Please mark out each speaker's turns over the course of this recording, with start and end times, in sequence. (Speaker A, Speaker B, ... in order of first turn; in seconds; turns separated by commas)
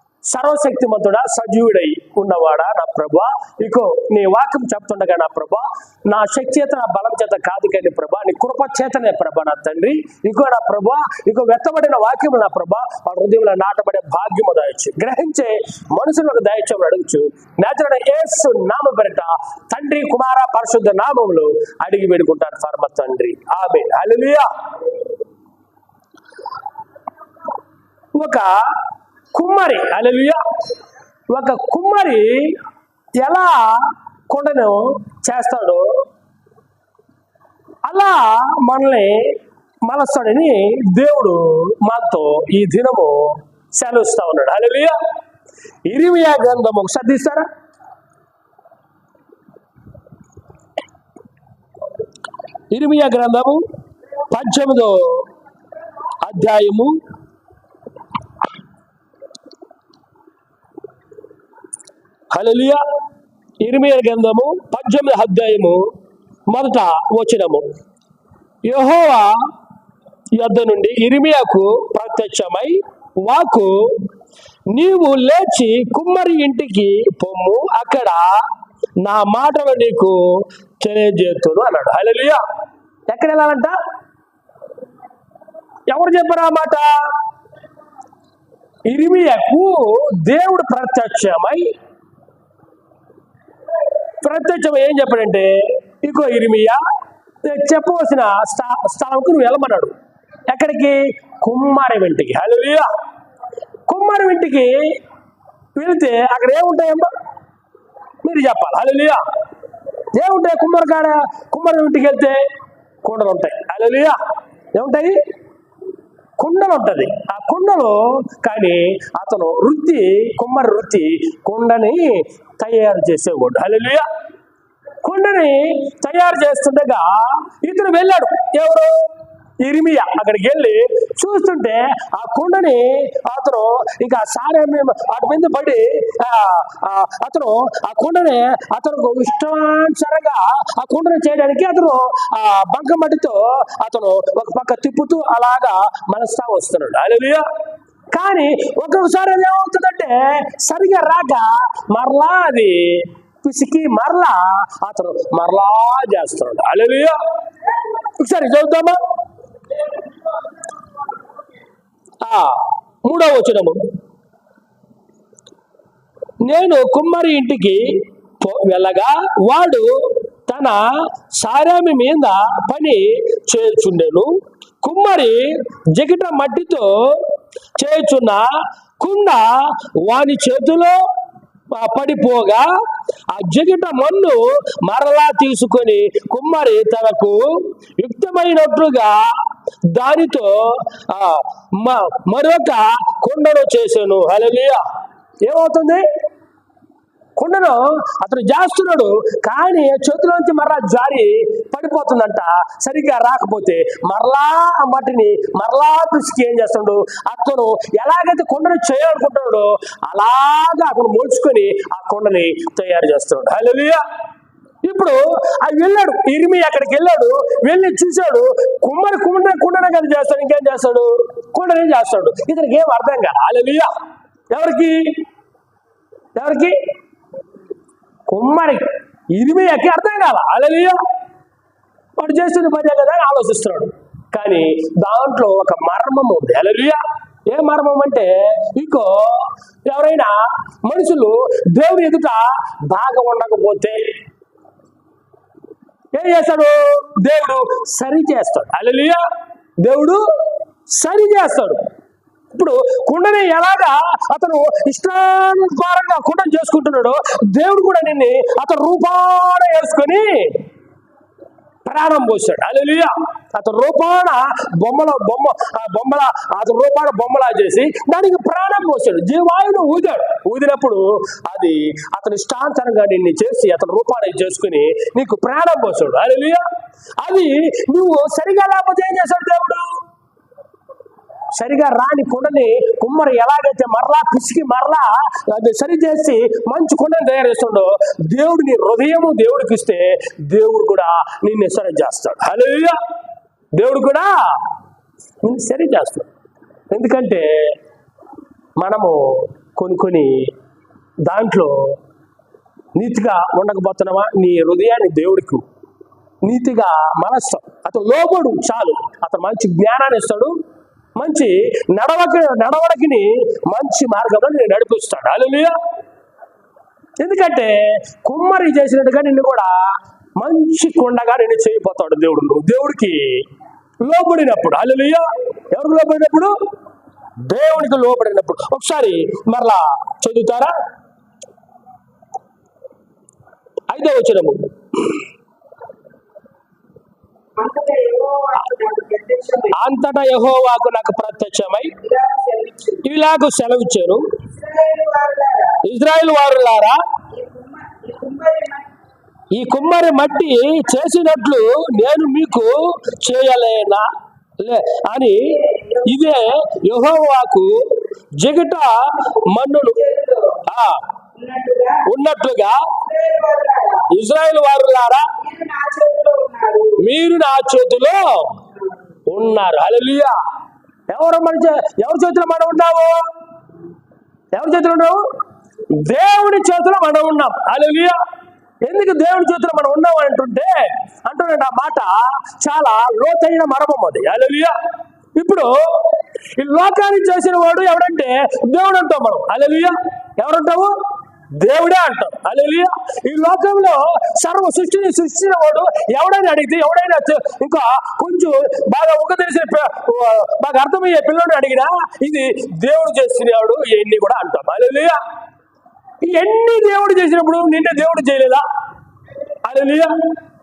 Speaker A: 0.3-24.5, Speaker A: 28.1-28.5, Speaker A: 29.3-30.4, Speaker A: 31.3-32.6, Speaker A: 33.2-35.9, Speaker A: 37.9-45.0, Speaker A: 45.9-47.5, Speaker A: 52.7-53.6, Speaker A: 54.3-55.2, Speaker A: 56.2-57.0, Speaker A: 62.3-62.8, Speaker A: 63.6-65.8, Speaker A: 66.5-67.7, Speaker A: 68.7-69.3, Speaker A: 70.3-74.1, Speaker A: 74.7-78.4, Speaker A: 79.0-82.4, Speaker A: 83.1-83.8, Speaker A: 85.9-87.1, Speaker A: 88.9-91.7, Speaker A: 94.2-96.8, Speaker A: 97.4-100.0, Speaker A: 100.5-102.9, Speaker A: 103.9-105.0, Speaker A: 105.8-107.1, Speaker A: 108.2-109.2, Speaker A: 110.1-112.4, Speaker A: 113.0-114.2, Speaker A: 114.7-115.2, Speaker A: 116.4-124.1, Speaker A: 125.0-129.1, Speaker A: 129.6-147.4, Speaker A: 148.1-157.2, Speaker A: 157.9-159.0, Speaker A: 162.2-163.8, Speaker A: 166.4-174.3, Speaker A: 174.8-178.4, Speaker A: 179.0-181.0, Speaker A: 181.7-182.7, Speaker A: 183.3-189.4, Speaker A: 189.9-194.8, Speaker A: 195.4-196.1, Speaker A: 197.4-214.0, Speaker A: 214.8-223.9, Speaker A: 224.5-225.1, Speaker A: 226.4-226.8, Speaker A: 228.3-231.0, Speaker A: 232.2-244.0, Speaker A: 246.1-249.2, Speaker A: 249.8-250.2, Speaker A: 250.9-251.8, Speaker A: 252.5-260.6, Speaker A: 261.9-276.6, Speaker A: 277.2-279.9, Speaker A: 281.6-293.0, Speaker A: 293.8-294.6, Speaker A: 295.4-296.3, Speaker A: 296.9-297.5, Speaker A: 298.8-300.5, Speaker A: 301.2-301.8, Speaker A: 302.9-305.6, Speaker A: 306.4-310.6, Speaker A: 311.2-315.8, Speaker A: 317.2-319.7, Speaker A: 320.4-323.4, Speaker A: 324.0-326.5, Speaker A: 327.5-330.7, Speaker A: 333.9-335.2, Speaker B: 337.6-339.8, Speaker A: 339.7-342.0, Speaker B: 342.0-343.0, Speaker A: 343.0-344.2, Speaker B: 344.6-345.8, Speaker A: 345.8-347.0, Speaker B: 347.3-348.9, Speaker A: 349.5-354.1, Speaker A: 354.6-357.7, Speaker A: 358.4-361.0, Speaker B: 360.1-360.6, Speaker B: 361.4-362.1, Speaker A: 362.1-362.8, Speaker B: 363.1-364.1, Speaker A: 364.1-365.3, Speaker B: 365.4-367.0, Speaker A: 367.0-368.6, Speaker A: 369.3-370.4, Speaker A: 371.1-373.2, Speaker A: 374.5-375.2, Speaker A: 375.9-378.2, Speaker A: 378.9-384.7, Speaker A: 385.4-390.9, Speaker A: 391.6-405.2, Speaker A: 406.2-408.6, Speaker A: 409.6-410.1